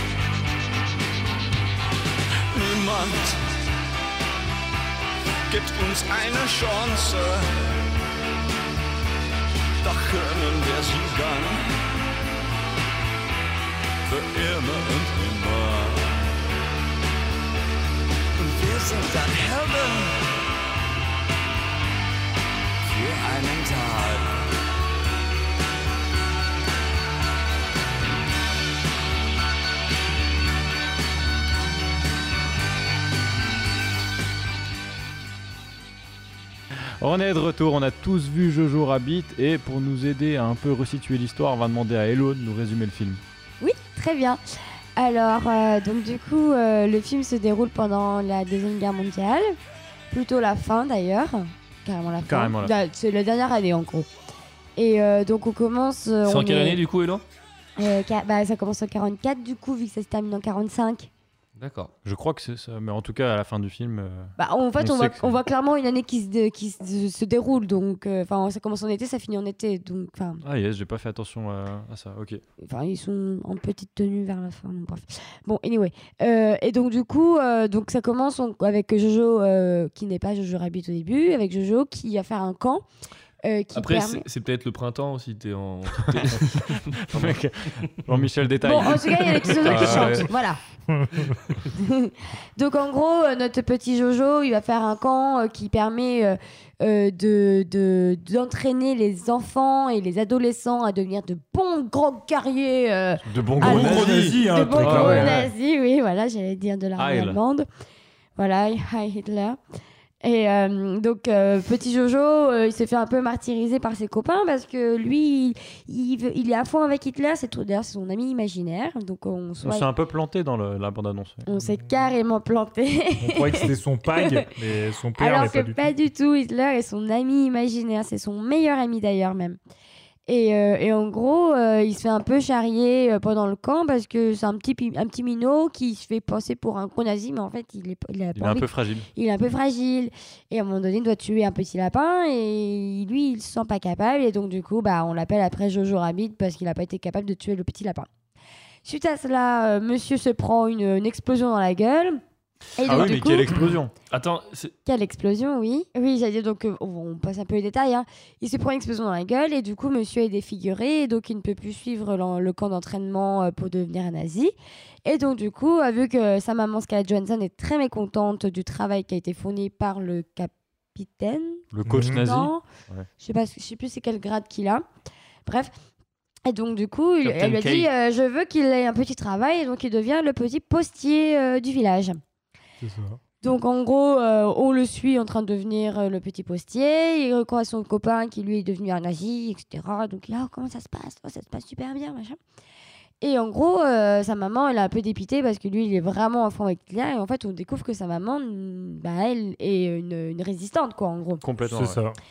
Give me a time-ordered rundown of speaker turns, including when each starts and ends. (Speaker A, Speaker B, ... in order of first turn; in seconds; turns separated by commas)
Speaker A: 2.5-3.4, Speaker A: 5.5-7.7, Speaker A: 9.8-11.7, Speaker A: 14.0-16.3, Speaker A: 18.4-20.4, Speaker A: 22.8-24.4, Speaker B: 37.0-43.2, Speaker C: 43.6-44.4, Speaker C: 45.0-49.5, Speaker C: 50.1-54.1, Speaker B: 52.3-52.7, Speaker C: 54.8-56.8, Speaker D: 56.2-57.2, Speaker C: 57.8-61.1, Speaker D: 61.6-61.9, Speaker B: 62.0-65.4, Speaker C: 64.4-70.4, Speaker B: 70.4-72.4, Speaker C: 72.6-82.8, Speaker C: 83.4-84.2, Speaker D: 83.7-87.9, Speaker B: 86.3-90.3, Speaker C: 88.6-90.6, Speaker D: 89.6-90.2, Speaker E: 90.9-91.3, Speaker C: 91.7-107.7, Speaker B: 103.2-105.4, Speaker E: 103.6-105.5, Speaker B: 107.0-107.4, Speaker C: 108.4-109.6, Speaker C: 110.2-119.9, Speaker B: 119.6-121.5, Speaker C: 121.5-123.7, Speaker E: 121.6-121.8, Speaker E: 123.2-125.8, Speaker C: 125.2-129.6, Speaker C: 130.3-148.1, Speaker B: 138.3-139.1, Speaker C: 148.8-152.2, Speaker C: 152.8-153.5, Speaker B: 152.8-153.9, Speaker D: 154.1-154.7, Speaker C: 154.8-164.5, Speaker C: 165.0-172.6, Speaker B: 171.7-173.1, Speaker E: 171.8-172.2, Speaker C: 173.2-174.8, Speaker C: 175.4-175.7, Speaker C: 176.4-182.2, Speaker D: 177.2-177.9, Speaker E: 182.8-183.2, Speaker C: 183.4-192.4, Speaker C: 193.2-201.4, Speaker B: 201.4-202.0, Speaker E: 201.7-202.2